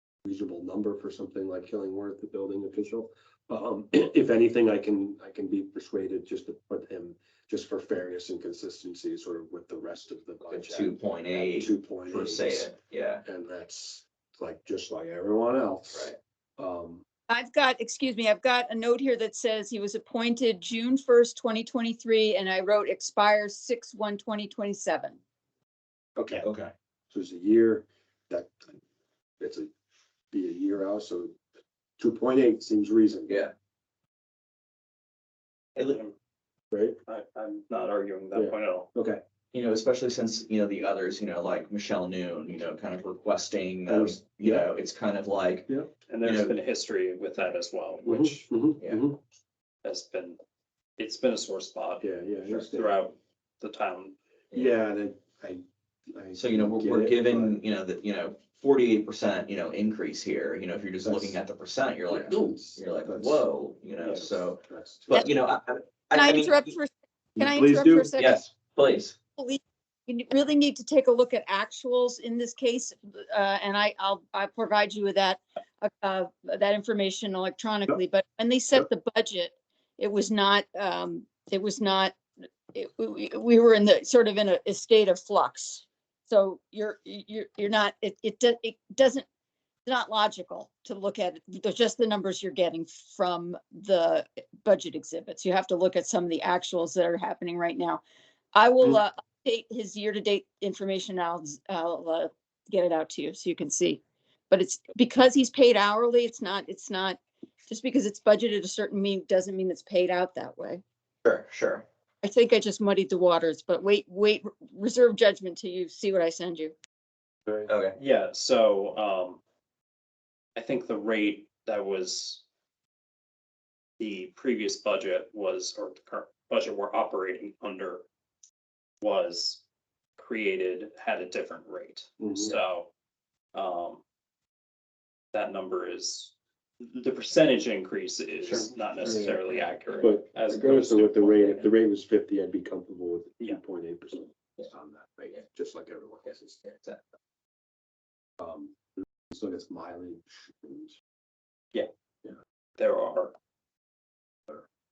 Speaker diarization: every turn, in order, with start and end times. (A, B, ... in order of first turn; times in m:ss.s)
0:00.2-0:12.7 A
0:10.5-0:13.2 B
0:13.2-0:17.0 A
0:15.9-0:16.2 B
0:17.3-0:25.2 C
0:26.2-0:26.5 A
0:26.4-0:26.7 B
0:27.1-0:28.7 A
0:29.4-0:29.7 A
0:30.3-0:31.4 A
0:32.0-0:33.4 A
0:33.3-0:33.5 B
0:35.9-0:36.1 D
0:36.7-0:37.0 A
0:37.1-0:38.9 D
0:38.3-0:39.2 A
0:39.5-0:45.7 B
0:43.9-0:44.7 A
0:46.1-0:48.5 D
0:46.2-0:46.6 B
0:48.0-0:49.2 A
0:49.8-0:50.4 D
0:51.0-0:52.1 D
0:52.0-0:53.0 A
0:52.6-0:54.1 D
0:54.5-0:54.8 B
0:54.5-0:57.6 A
0:56.4-1:06.7 B
1:01.0-1:01.4 A
1:02.1-1:03.4 A
1:04.0-1:05.3 A
1:06.1-1:08.4 C
1:07.4-1:08.2 A
1:08.2-1:09.2 B
1:09.4-1:22.2 C
1:22.7-1:29.3 C
1:29.9-1:38.0 C
1:38.6-1:50.8 C
1:51.2-1:51.8 B
1:52.2-1:56.7 C
1:57.7-1:58.0 B
1:58.0-1:59.4 D
2:00.6-2:02.4 D
2:04.0-2:08.0 D
2:09.0-2:09.6 D
2:10.2-2:12.9 D
2:12.2-2:12.6 A
2:13.5-2:14.0 D
2:15.3-2:21.7 D
2:18.5-2:19.4 A
2:20.0-2:26.6 A
2:26.7-2:27.0 B
2:28.4-2:28.8 A
2:29.3-2:31.0 A
2:32.8-2:33.3 D